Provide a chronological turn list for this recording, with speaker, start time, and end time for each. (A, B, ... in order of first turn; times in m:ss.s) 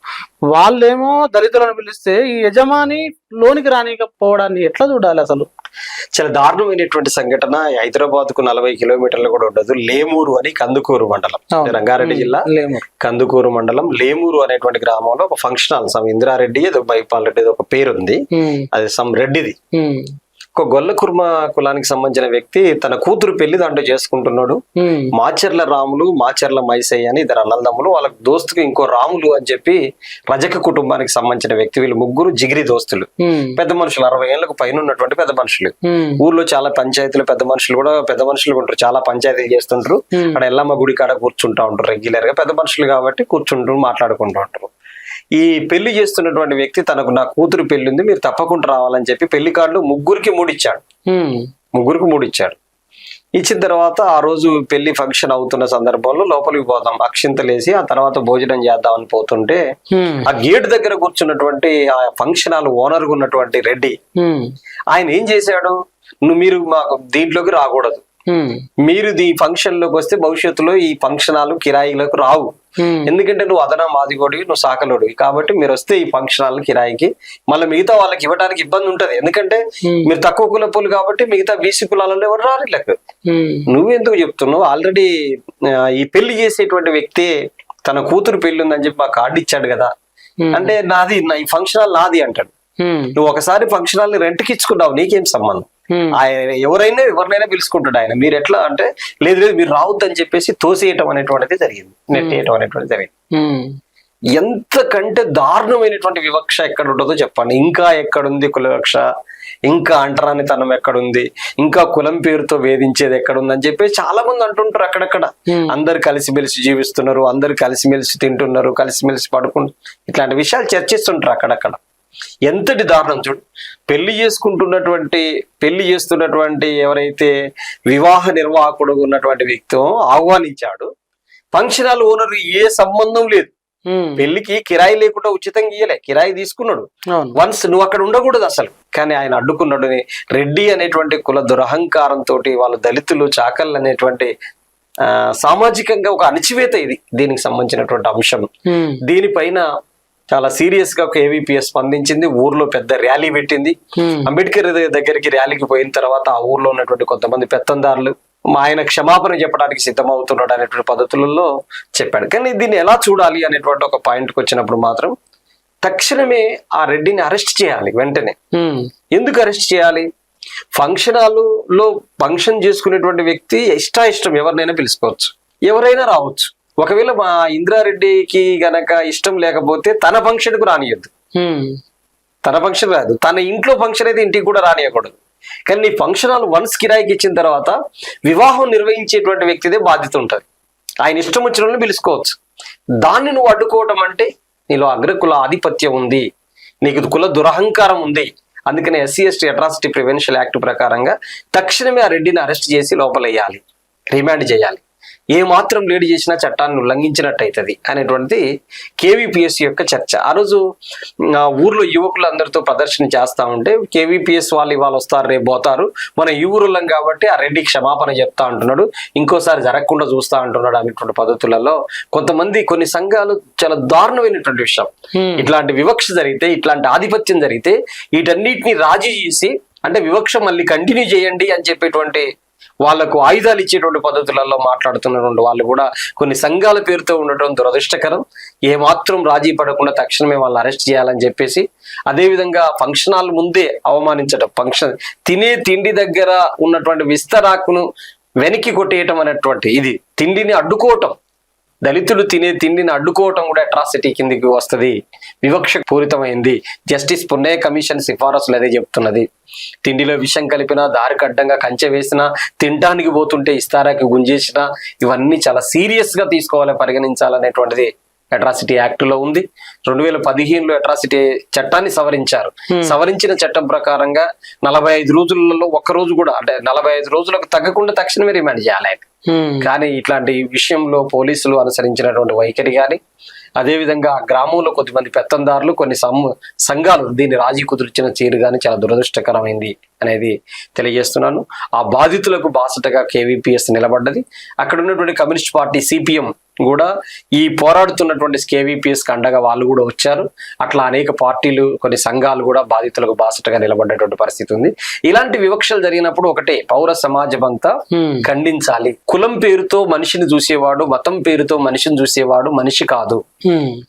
0:00.5-0:05.5 A
0:06.1-0:12.4 B
0:11.5-0:12.8 A
0:13.0-0:18.2 B
0:18.3-0:18.6 A
0:18.7-0:19.6 B
0:19.8-0:20.0 A
0:20.6-0:24.6 B
0:24.8-0:25.1 A
0:25.1-0:44.7 B
0:33.2-0:33.6 A
0:35.9-0:36.2 A
0:45.4-0:50.8 B
0:51.1-0:51.4 A
0:51.8-0:52.6 B
0:53.4-0:59.6 B
0:59.9-1:00.3 A
1:00.2-1:04.0 B
1:04.2-1:04.5 A
1:04.9-1:08.0 B
1:08.3-1:08.6 A
1:08.8-1:23.0 B
1:12.8-1:13.1 A
1:19.8-1:20.1 A
1:23.3-1:23.7 A
1:23.7-1:25.1 B
1:25.6-1:27.3 B
1:27.8-1:29.9 B
1:30.4-1:30.7 A
1:30.5-1:32.5 B
1:32.8-1:33.1 A
1:33.2-1:43.1 B
1:42.1-1:42.4 A
1:43.4-1:43.7 A
1:44.3-1:49.0 B
1:49.7-2:01.8 B
2:02.5-2:07.3 B
2:07.9-2:10.9 B
2:11.5-2:13.5 B
2:13.9-2:14.2 A
2:14.2-2:24.3 B
2:17.1-2:17.4 A
2:25.0-2:28.5 B
2:28.7-2:29.0 A
2:29.0-2:29.6 B
2:30.3-2:45.1 B
2:34.0-2:34.3 A
2:45.8-2:48.4 B
2:49.1-2:50.1 B
2:50.7-3:01.1 B
3:01.4-3:01.7 A
3:02.4-3:05.1 B
3:05.7-3:10.4 B
3:11.0-3:12.4 B
3:13.0-3:16.2 B
3:16.8-3:23.6 B
3:24.1-3:24.8 B
3:25.3-3:28.4 B
3:29.0-3:30.6 B
3:31.3-3:52.3 B
3:45.2-3:45.4 A
3:52.8-4:07.9 B
4:08.4-4:11.2 B
4:11.8-4:19.3 B
4:19.8-4:39.1 B
4:39.3-4:39.7 A
4:39.6-4:43.0 B
4:43.6-5:13.2 B
5:07.9-5:08.2 A
5:13.5-5:13.7 A